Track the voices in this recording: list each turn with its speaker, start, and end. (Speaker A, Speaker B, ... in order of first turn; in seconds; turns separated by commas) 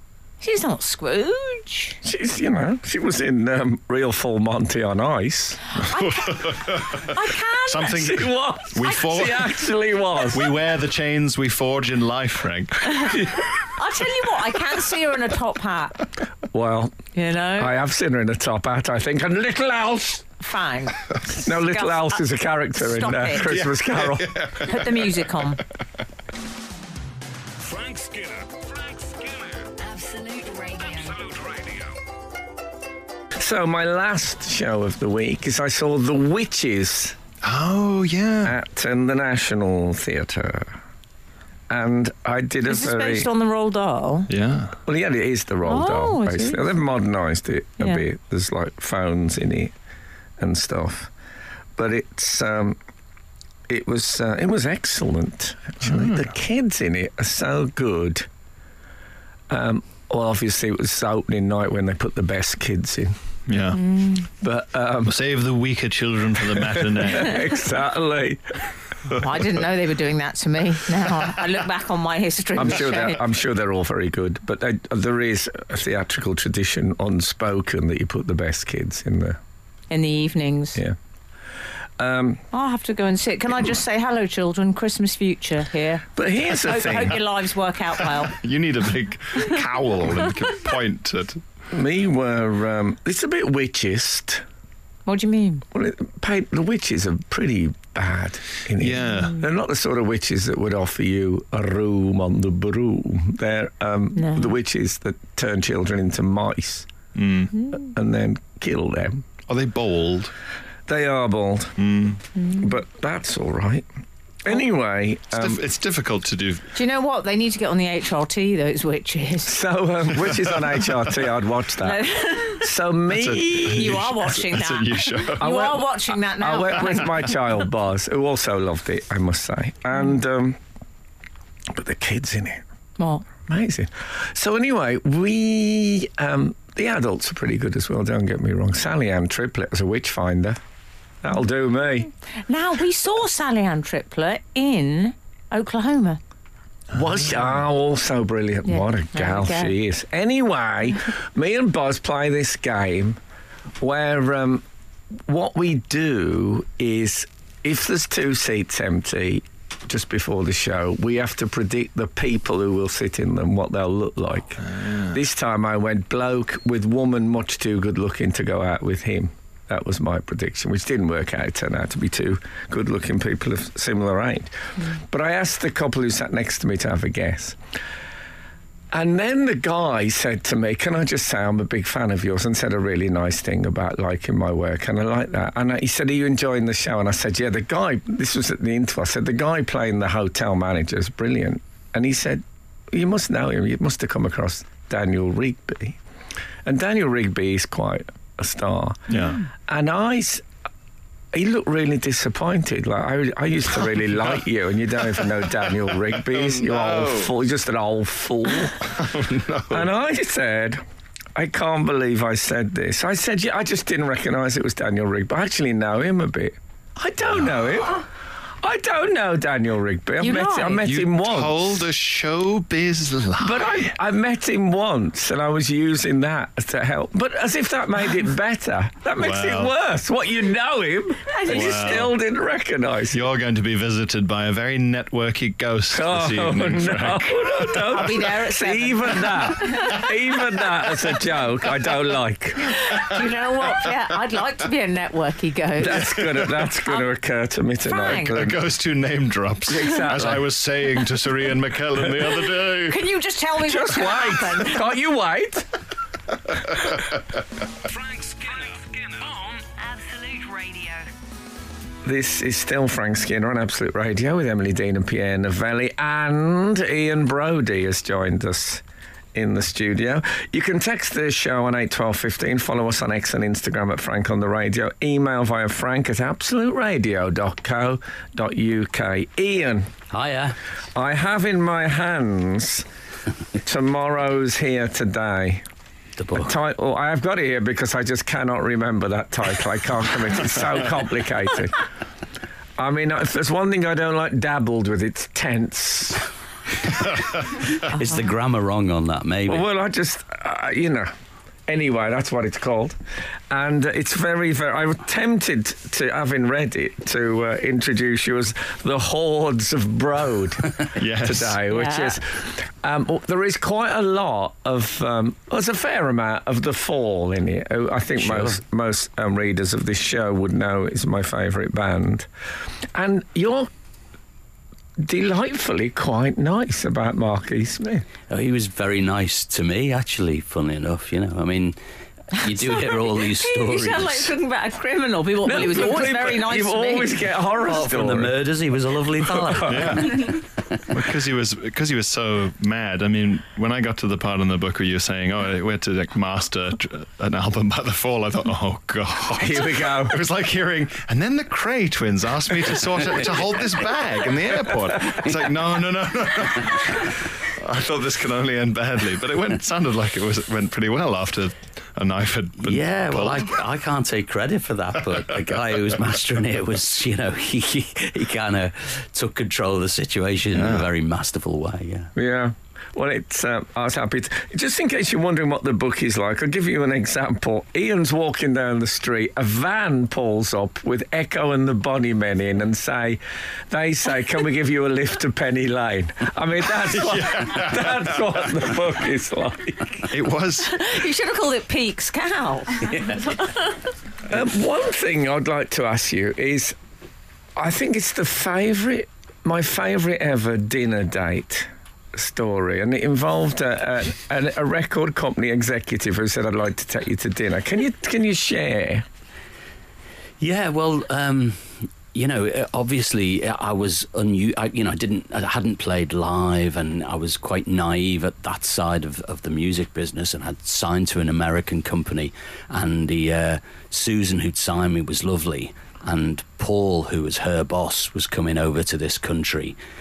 Speaker A: 0.4-2.0, Speaker B: 2.0-5.7, Speaker A: 5.8-8.1, Speaker C: 5.9-9.6, Speaker B: 7.9-10.5, Speaker C: 10.3-13.2, Speaker A: 13.6-16.0, Speaker B: 16.5-16.9, Speaker A: 17.1-17.8, Speaker B: 17.6-20.3, Speaker A: 20.4-23.6, Speaker B: 21.3-24.3, Speaker C: 23.5-25.1, Speaker A: 24.6-25.6, Speaker D: 27.6-29.7, Speaker E: 29.8-31.3, Speaker D: 30.8-32.0, Speaker B: 33.4-37.2, Speaker C: 37.4-38.6, Speaker B: 38.4-40.8, Speaker B: 41.7-43.3, Speaker A: 42.6-44.3, Speaker C: 44.3-44.8, Speaker B: 44.9-49.7, Speaker A: 45.6-46.7, Speaker B: 50.4-51.1, Speaker B: 51.8-52.8, Speaker B: 53.7-58.3, Speaker C: 55.8-56.2, Speaker B: 59.5-63.1, Speaker C: 63.5-63.8, Speaker A: 63.8-64.2, Speaker B: 64.4-65.2, Speaker C: 65.0-67.6, Speaker B: 66.5-68.7, Speaker A: 69.1-73.2, Speaker B: 72.5-79.4, Speaker A: 79.9-80.8, Speaker B: 82.0-82.4, Speaker A: 82.5-86.1, Speaker B: 86.2-87.2, Speaker A: 86.6-88.3, Speaker C: 88.3-91.4, Speaker B: 91.7-94.4, Speaker A: 95.0-95.6, Speaker B: 95.7-106.9, Speaker C: 98.8-99.4, Speaker A: 104.2-104.5, Speaker C: 107.1-107.5, Speaker B: 107.7-109.2, Speaker C: 109.5-110.3, Speaker B: 110.9-111.8, Speaker C: 111.8-112.2, Speaker B: 112.5-113.9, Speaker B: 114.4-115.6, Speaker C: 115.3-116.7, Speaker A: 116.7-119.6, Speaker B: 119.4-122.0, Speaker C: 120.3-121.0, Speaker A: 121.8-122.7, Speaker B: 122.5-124.0, Speaker C: 123.1-125.5, Speaker A: 123.6-127.4, Speaker B: 125.4-130.6, Speaker B: 131.7-132.6, Speaker A: 133.0-133.2, Speaker B: 133.4-140.6, Speaker B: 141.2-142.1, Speaker A: 142.5-146.2, Speaker B: 146.9-153.2, Speaker A: 148.7-149.7, Speaker B: 153.8-154.6, Speaker B: 155.2-177.6, Speaker C: 164.7-165.1, Speaker B: 178.9-196.0, Speaker B: 196.6-199.1, Speaker C: 199.1-199.4, Speaker B: 199.7-200.4, Speaker B: 201.3-209.0, Speaker C: 206.2-207.3, Speaker C: 208.9-209.9, Speaker B: 209.7-210.8, Speaker B: 211.3-218.1, Speaker B: 218.6-221.9, Speaker A: 220.2-220.9, Speaker C: 220.8-223.9, Speaker B: 223.4-233.2, Speaker C: 229.2-229.7, Speaker A: 231.3-232.0, Speaker C: 231.5-232.1, Speaker C: 233.1-237.9, Speaker B: 235.9-242.8, Speaker A: 237.8-240.1, Speaker A: 242.6-246.2, Speaker B: 245.8-248.6, Speaker A: 247.8-248.4, Speaker C: 248.2-253.0, Speaker B: 249.7-250.5, Speaker A: 252.9-254.8, Speaker B: 253.6-255.7, Speaker D: 257.8-259.6, Speaker E: 259.6-261.1, Speaker B: 262.0-268.8, Speaker B: 269.3-279.9, Speaker F: 280.1-280.6, Speaker B: 280.9-282.9, Speaker B: 283.6-285.6, Speaker F: 286.2-286.5, Speaker B: 286.3-291.8, Speaker B: 292.8-296.2, Speaker F: 297.8-299.6, Speaker B: 299.5-301.1, Speaker B: 301.7-303.0, Speaker B: 303.5-322.3, Speaker C: 311.0-311.6, Speaker A: 311.7-312.1, Speaker F: 318.2-318.6, Speaker B: 322.9-323.7, Speaker B: 325.0-328.1, Speaker F: 328.3-331.8, Speaker F: 332.3-334.3, Speaker A: 332.6-337.2, Speaker B: 335.4-338.3, Speaker F: 337.6-340.8, Speaker B: 339.2-340.1, Speaker C: 339.6-363.6, Speaker B: 349.4-350.2, Speaker F: 362.6-372.1, Speaker C: 370.5-370.8, Speaker B: 372.1-390.0, Speaker C: 386.9-388.4, Speaker C: 390.1-390.8, Speaker A: 390.6-393.6, Speaker F: 392.9-393.2, Speaker B: 394.3-396.8, Speaker B: 397.6-409.1, Speaker F: 410.4-429.8